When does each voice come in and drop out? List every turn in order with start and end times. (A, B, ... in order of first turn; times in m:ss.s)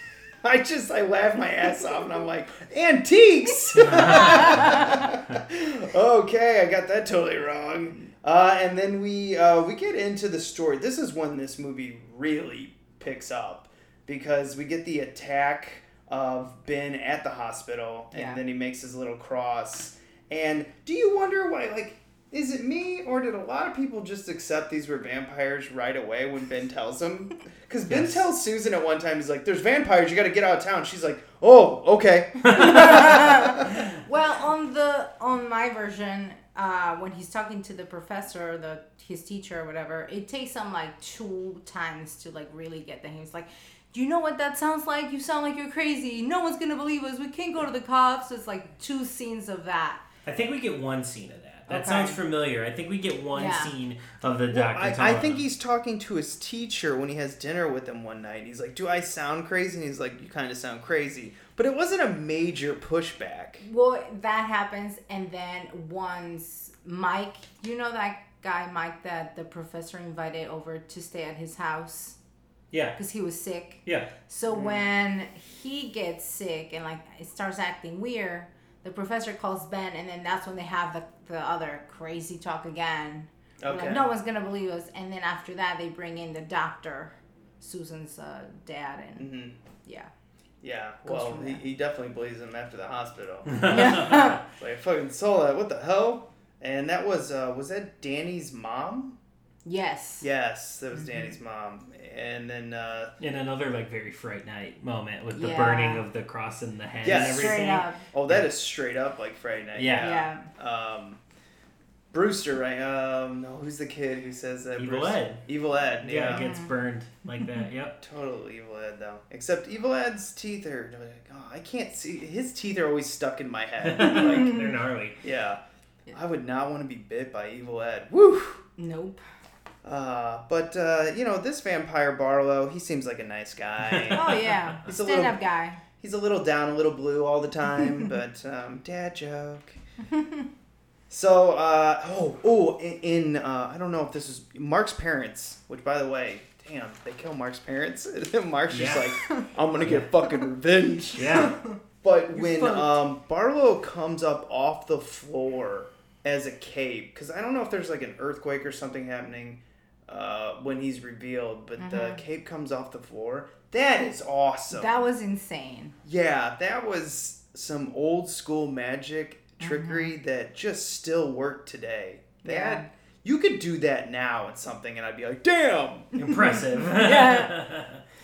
0:00.4-0:33.8 A
0:03.8-0:04.4 B
0:04.1-0:04.8 C
0:18.1-0:18.4 C
0:27.9-0:28.3 B
0:32.5-0:50.0 C
0:50.3-0:55.4 B
0:51.7-0:52.2 C
0:53.3-0:53.7 C
0:54.5-1:03.6 A
1:03.6-1:12.2 C
1:12.7-1:13.0 B
1:13.0-1:29.3 C
1:13.8-1:14.1 B
1:14.5-1:14.8 A
1:23.6-1:24.1 A
1:29.2-1:29.6 A
1:29.8-1:30.1 C
1:30.6-1:39.2 A
1:31.0-1:31.6 C
1:33.5-1:34.3 B
1:33.7-1:34.4 C
1:39.6-1:40.3 C
1:40.2-1:43.1 A
1:43.2-1:48.5 B
1:45.3-1:46.0 C
1:47.0-1:51.2 A
1:47.1-1:48.0 C
1:49.8-1:50.2 B
1:50.0-1:50.5 C
1:52.1-1:56.5 A
1:54.8-1:55.4 B
1:56.0-1:58.0 B
1:56.3-1:56.7 C
1:58.0-2:04.6 A
2:03.8-2:05.2 B
2:05.2-2:05.6 A
2:06.1-2:08.6 A
2:08.8-2:09.2 C
2:09.8-2:15.4 A
2:13.8-2:14.7 B
2:14.1-2:15.8 C
2:16.0-2:19.8 A
2:20.2-2:20.4 C
2:21.1-2:44.9 A
2:28.7-2:29.1 B
2:29.8-2:30.1 B
2:31.2-2:31.6 B
2:31.3-2:31.7 C
2:32.4-2:32.9 C
2:41.8-2:42.2 C
2:44.7-2:46.0 C
2:46.0-2:56.2 A
2:49.6-2:50.1 C
2:52.4-2:52.9 C
2:56.2-2:58.0 B
2:57.0-2:57.5 C